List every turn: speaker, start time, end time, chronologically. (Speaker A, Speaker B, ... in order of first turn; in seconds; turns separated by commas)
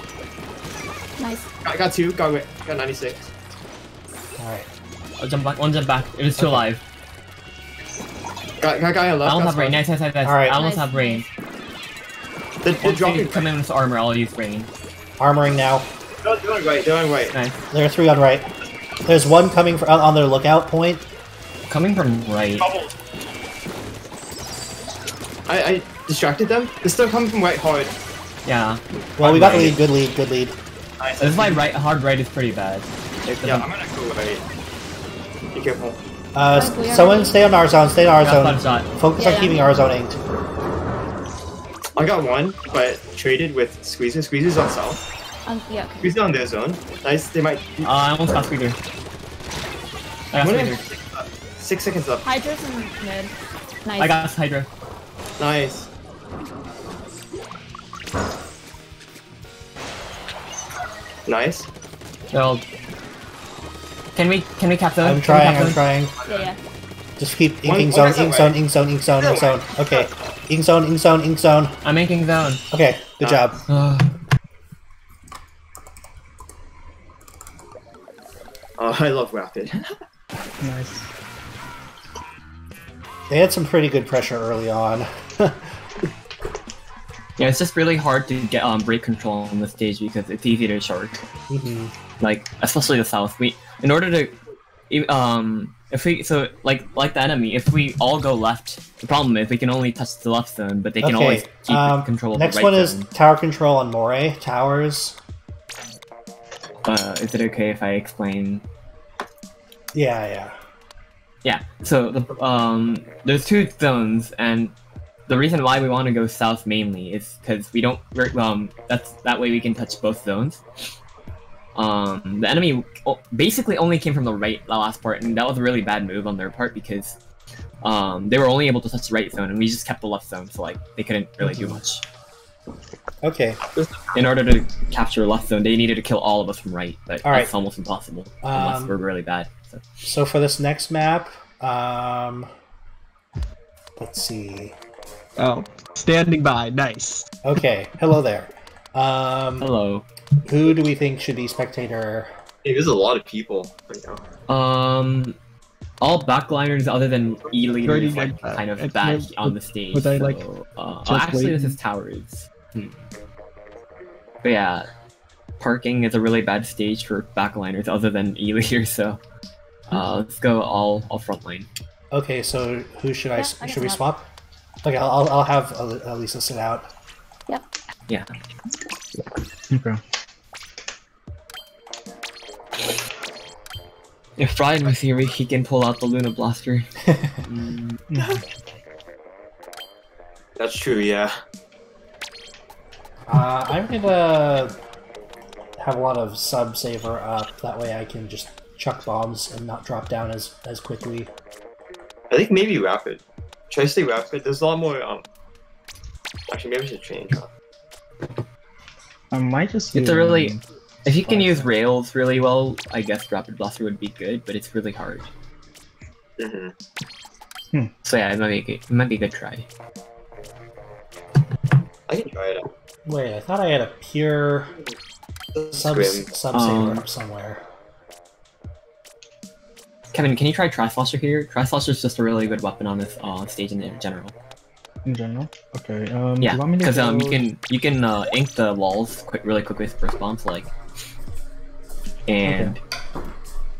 Speaker A: 1.2-1.5, Speaker B: 1.6-3.3, Speaker C: 4.4-4.7, Speaker D: 5.2-6.8, Speaker C: 6.4-6.7, Speaker B: 8.6-9.8, Speaker D: 9.2-11.2, Speaker C: 10.2-10.6, Speaker A: 10.5-11.2, Speaker B: 12.6-13.5, Speaker D: 12.8-14.7, Speaker C: 15.2-15.9, Speaker B: 16.2-17.3, Speaker C: 17.7-18.5, Speaker C: 19.1-21.1, Speaker D: 21.7-22.6, Speaker B: 22.6-22.9, Speaker B: 25.5-27.9, Speaker D: 28.4-29.8, Speaker C: 29.2-30.6, Speaker B: 31.0-31.6, Speaker D: 31.2-33.7, Speaker B: 33.4-34.4, Speaker B: 35.5-36.0, Speaker C: 36.3-40.2, Speaker A: 36.5-37.4, Speaker D: 38.2-38.9, Speaker A: 39.2-39.7, Speaker B: 42.0-45.0, Speaker A: 45.5-46.1, Speaker B: 46.0-48.3, Speaker D: 47.8-48.8, Speaker D: 50.3-50.8, Speaker B: 50.4-52.2, Speaker A: 52.2-53.3, Speaker A: 53.8-54.2, Speaker D: 54.0-54.7, Speaker B: 55.4-55.9, Speaker B: 61.2-61.7, Speaker D: 62.3-62.6, Speaker D: 64.1-65.8, Speaker C: 65.0-66.1, Speaker B: 66.2-66.5, Speaker A: 66.2-66.6, Speaker C: 67.2-71.8, Speaker B: 67.6-68.5, Speaker B: 69.2-70.1, Speaker D: 71.8-72.6, Speaker C: 72.7-73.6, Speaker D: 73.7-74.1, Speaker B: 78.8-80.0, Speaker E: 80.6-81.0, Speaker C: 83.3-85.7, Speaker D: 87.4-91.2, Speaker C: 91.5-91.9, Speaker D: 92.2-94.3, Speaker D: 94.9-103.1, Speaker C: 101.0-105.2, Speaker D: 106.8-108.6, Speaker C: 109.9-110.5, Speaker D: 111.4-114.7, Speaker D: 115.3-120.9, Speaker D: 121.7-127.2, Speaker D: 127.8-132.0, Speaker C: 131.4-131.8, Speaker C: 133.2-133.6, Speaker B: 133.8-134.1, Speaker D: 134.1-139.8, Speaker C: 137.2-137.5, Speaker C: 138.4-139.0, Speaker C: 140.0-142.5, Speaker C: 144.0-144.8, Speaker F: 145.4-147.3, Speaker C: 147.4-149.7, Speaker D: 149.6-150.1, Speaker C: 150.4-152.3, Speaker B: 152.6-154.2, Speaker D: 154.5-155.3, Speaker D: 156.0-163.0, Speaker B: 157.7-158.3, Speaker F: 157.8-160.4, Speaker F: 161.1-161.8, Speaker D: 164.4-164.9, Speaker D: 165.6-169.2, Speaker D: 169.9-171.7, Speaker C: 172.1-174.3, Speaker A: 173.3-174.0, Speaker C: 174.8-176.9, Speaker E: 179.7-180.0, Speaker D: 184.4-186.9, Speaker D: 187.4-188.0, Speaker E: 188.1-188.4, Speaker B: 190.6-191.3, Speaker C: 193.3-194.8, Speaker C: 195.8-201.3, Speaker B: 202.3-205.2, Speaker B: 206.5-207.5, Speaker E: 209.3-211.7, Speaker D: 209.9-215.3, Speaker B: 216.4-216.7, Speaker D: 218.0-219.7, Speaker B: 222.1-222.7, Speaker C: 223.0-224.7, Speaker B: 225.5-226.3, Speaker C: 225.7-227.6, Speaker D: 226.5-227.0, Speaker D: 230.1-234.3, Speaker E: 235.0-237.4, Speaker D: 236.4-240.7, Speaker D: 242.3-242.8, Speaker E: 242.4-242.7